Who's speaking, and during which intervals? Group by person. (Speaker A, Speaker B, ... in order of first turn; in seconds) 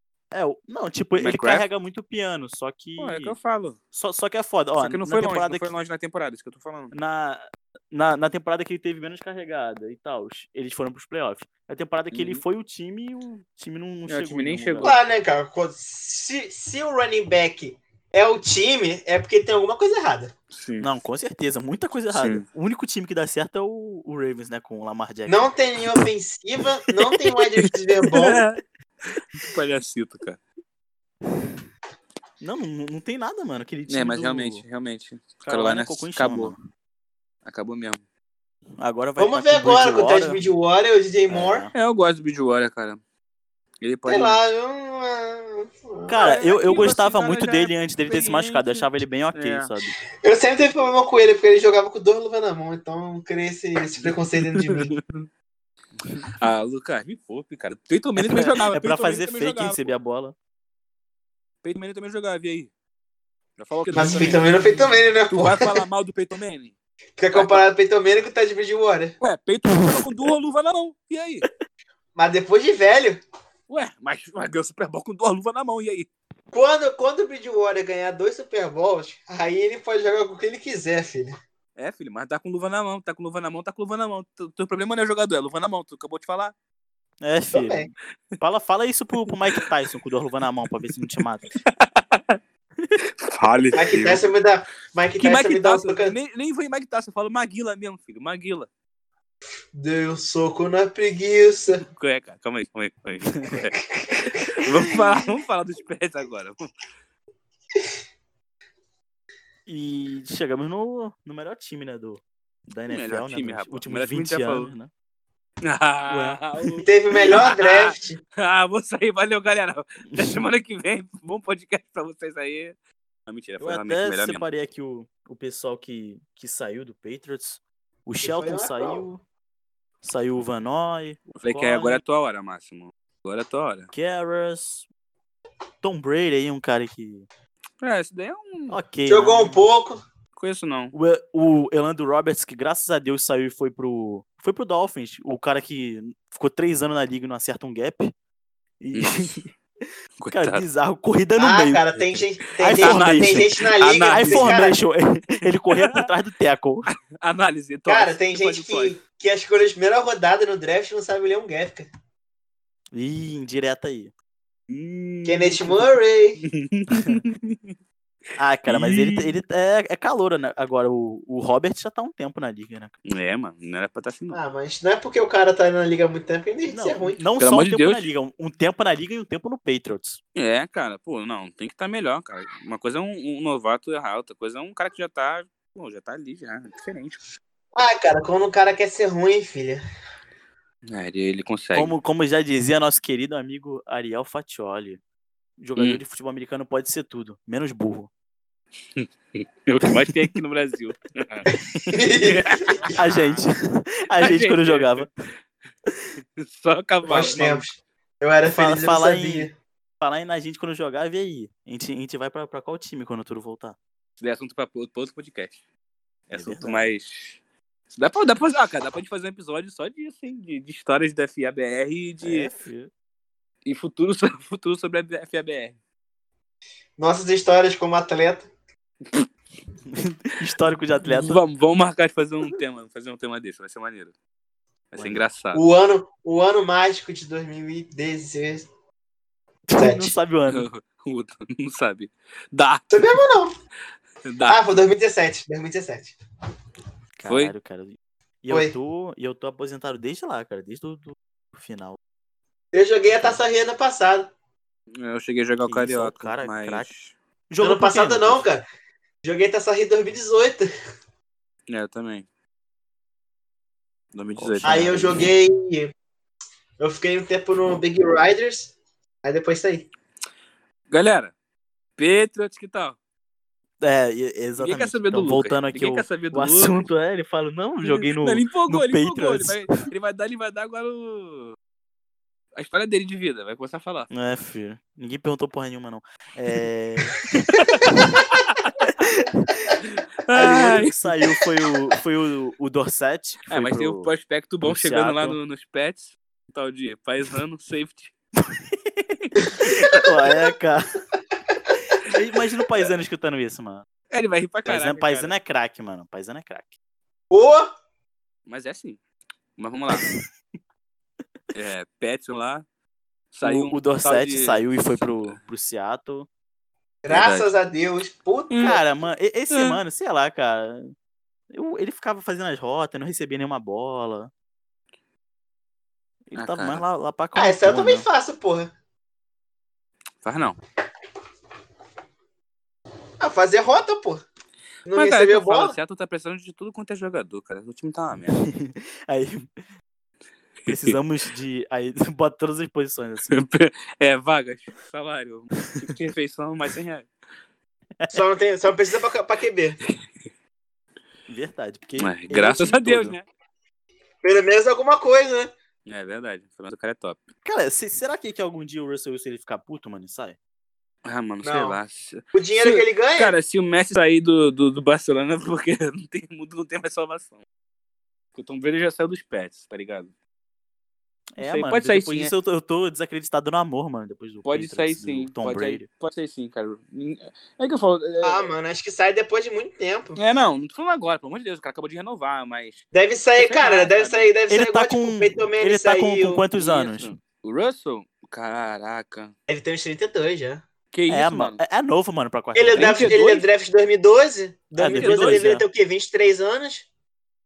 Speaker A: 0.3-3.4, 3.9-5.7, 6.9-15.0, 20.8-25.4, 31.3-31.5, 32.4-34.6, 35.4-36.6, 38.8-40.4, 41.3-41.7, 46.1-49.9, 58.2-60.3, 63.9-64.6, 69.8-70.3, 87.2-91.5, 103.3-103.6, 104.5-104.9, 109.7-114.9, 116.1-116.8, 120.1-120.4, 123.6-129.2, 130.0-132.0, 133.9-134.8, 135.8-137.3, 138.7-139.7, 140.9-148.1, 148.8-149.5, 150.3-156.9, 162.9-164.1, 166.9-167.2, 168.4-172.9, 176.7-180.2, 191.7-195.0, 195.6-198.1, 202.9-205.1, 207.1-207.3, 208.4-209.5, 210.0-213.8, 216.3-216.9, 222.2-222.9, 229.9-231.4, 235.0-235.2, 239.7-240.7, 247.2-252.0, 253.1-253.4, 255.6-256.9, 257.5-258.4, 264.4-265.3, 273.8-279.8, 284.1-288.2, 288.8-289.8, 290.3-294.1, 294.6-295.4, 298.4-300.8, 302.0-303.9, 304.6-306.7, 309.9-310.2, 313.4-316.3, 318.6-320.9, 321.5-324.3, 326.3-328.1, 338.3-339.5, 340.7-343.3, 351.3-353.1, 357.4-360.4, 371.4-375.9, 384.5-387.1, 391.1-393.1, 394.8-395.6
Speaker B: 1.2-1.6, 3.0-3.8, 4.8-6.9, 12.1-12.4, 14.1-14.9, 20.5-20.9, 22.1-22.4, 27.6-30.4, 33.9-36.5, 37.4-38.0, 41.7-43.0, 43.8-44.4, 46.1-49.7, 54.0-55.3, 56.4-59.9, 61.6-62.7, 63.6-66.7, 67.3-67.6, 69.2-71.5, 73.7-76.1, 81.8-86.5, 89.2-89.6, 91.6-92.4, 93.2-94.3, 95.2-98.7, 101.8-103.8, 104.4-106.6, 112.9-114.7, 115.6-122.7, 123.3-124.4, 131.4-133.9, 137.8-138.8, 140.3-140.9, 148.9-149.4, 150.2-150.6, 152.6-154.6, 155.7-156.1, 156.9-158.9, 164.7-165.9, 166.4-167.7, 168.7-169.3, 173.1-174.4, 177.4-178.1, 180.3-187.2, 190.9-191.9, 198.9-201.5, 202.2-203.4, 204.2-205.1, 206.2-207.7, 214.2-215.6, 216.3-217.4, 217.9-222.5, 223.6-225.8, 231.0-234.1, 234.9-235.6, 240.5-242.9, 244.2-244.6, 247.3-247.5, 254.9-257.1, 261.7-262.3, 264.1-265.0, 270.9-271.3, 272.0-273.0, 274.6-276.9, 277.8-281.6, 282.5-284.1, 287.5-288.9, 290.2-291.1, 293.5-298.1, 304.1-305.3, 308.5-309.0, 309.6-310.1, 311.5-312.6, 313.3-315.4, 317.1-317.5, 318.5-318.8, 319.5-319.8, 326.4-326.8, 330.2-330.6, 334.9-338.4, 340.6-341.0, 343.3-347.1, 352.0-353.2, 355.9-357.2, 361.0-367.4, 368.4-370.1, 371.4-372.3, 374.4-378.5, 380.1-382.8, 383.4-384.3, 386.6-389.3, 390.9-391.6, 392.7-393.4, 394.8-395.5
Speaker C: 14.8-20.3, 25.3-28.4, 39.2-41.7, 44.0-46.3, 50.2-54.9, 63.9-65.8, 67.2-69.1, 72.2-73.2, 76.5-81.3, 87.5-87.9, 93.7-96.2, 99.7-101.8, 116.8-118.2, 128.2-129.0, 139.1-140.0, 151.4-154.8, 157.9-161.9, 165.2-166.4, 174.3-177.2, 187.8-189.8, 201.9-202.9, 207.0-209.5, 227.0-228.5, 235.5-238.7, 239.8-240.1, 242.9-243.5, 244.4-246.1, 252.7-254.3, 257.6-258.6, 259.2-260.7, 264.6-265.9, 266.8-269.9, 299.4-300.1, 307.3-307.7, 317.0-318.8, 327.3-328.7, 333.2-334.2, 334.9-335.8, 348.1-349.8, 354.2-355.5, 361.4-361.8, 362.3-363.3, 378.2-380.2, 382.9-386.4, 389.5-390.6, 392.5-396.9